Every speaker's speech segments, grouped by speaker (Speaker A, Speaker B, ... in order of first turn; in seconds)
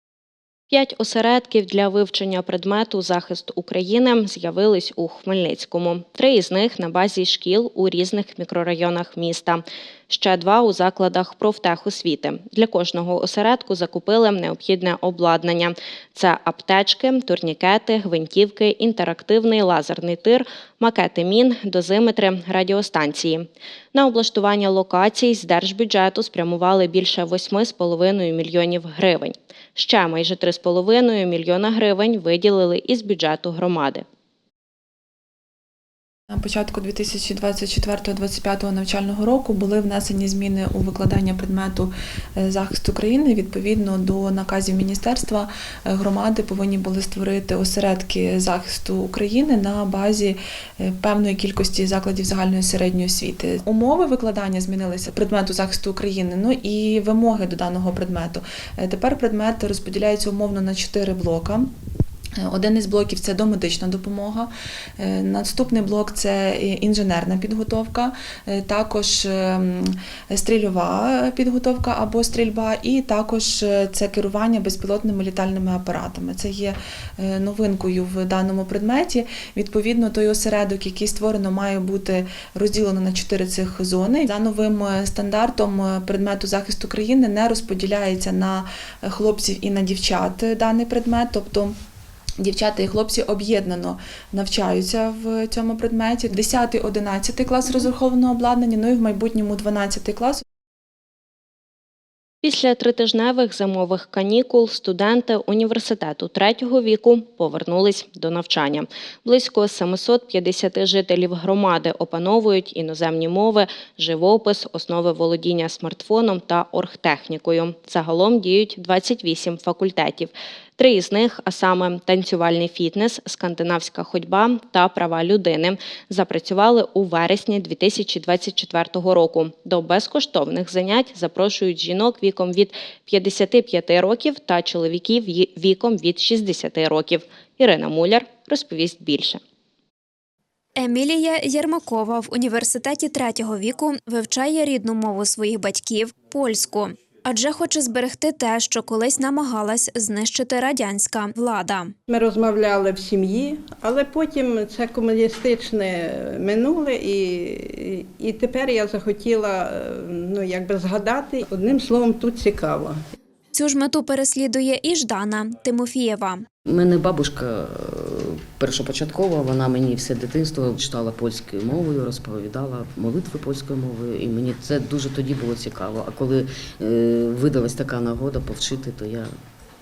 Speaker A: 0.7-34.0, 102.4-139.4
Speaker B: 36.3-61.7, 62.4-91.8, 92.4-100.4
Speaker C: 140.8-151.9, 163.5-166.4
Speaker D: 152.1-163.0
Speaker E: 166.7-179.3